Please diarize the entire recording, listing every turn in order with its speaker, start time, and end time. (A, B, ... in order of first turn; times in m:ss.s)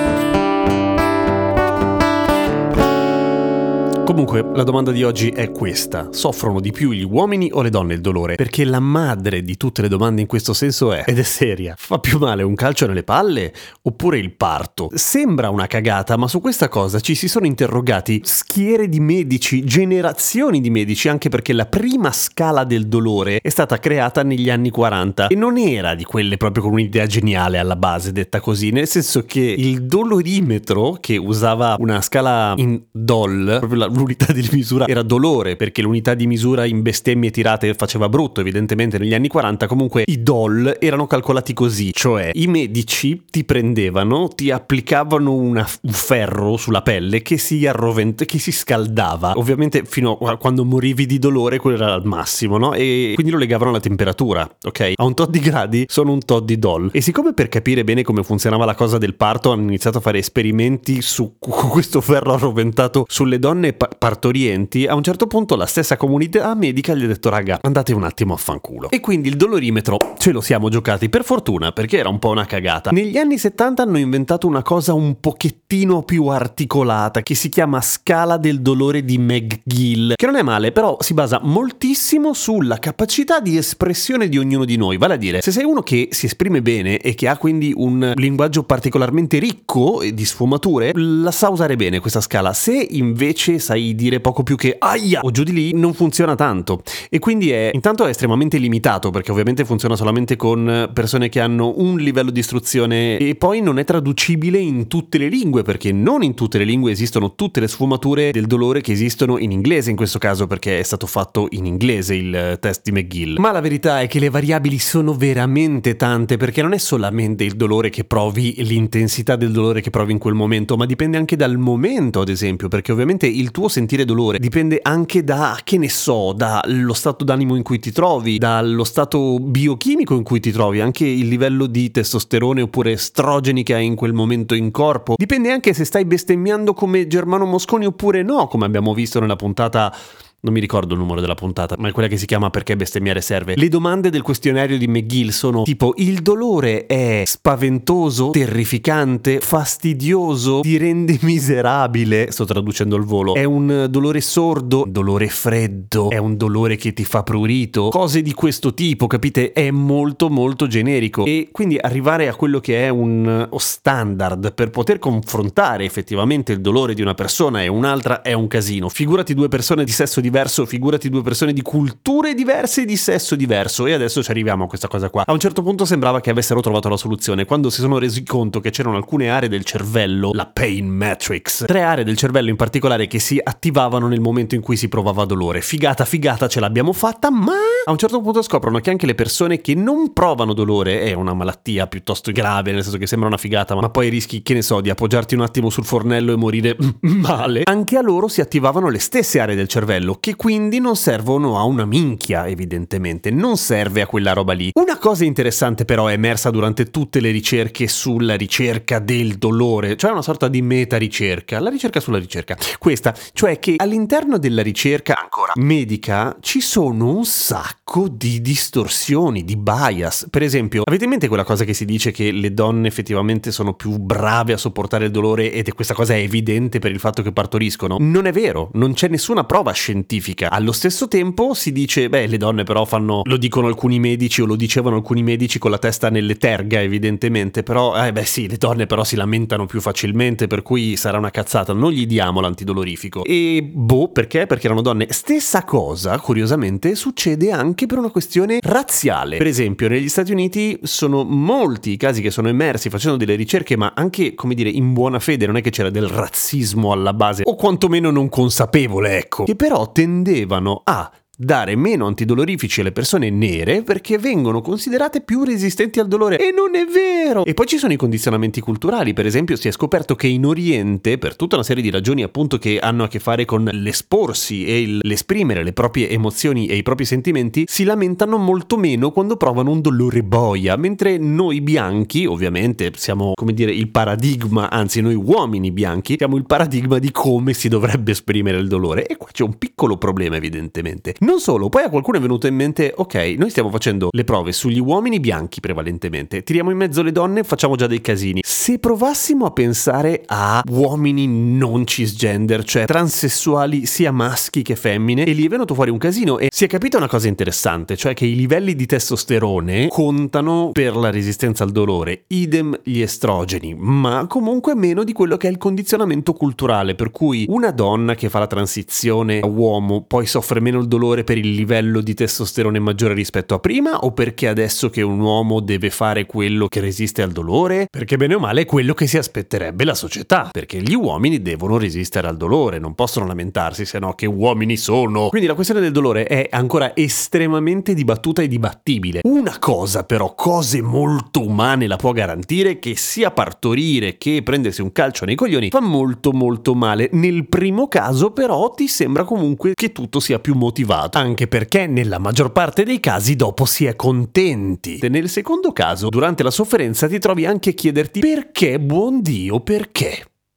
0:04.0-6:00.3 A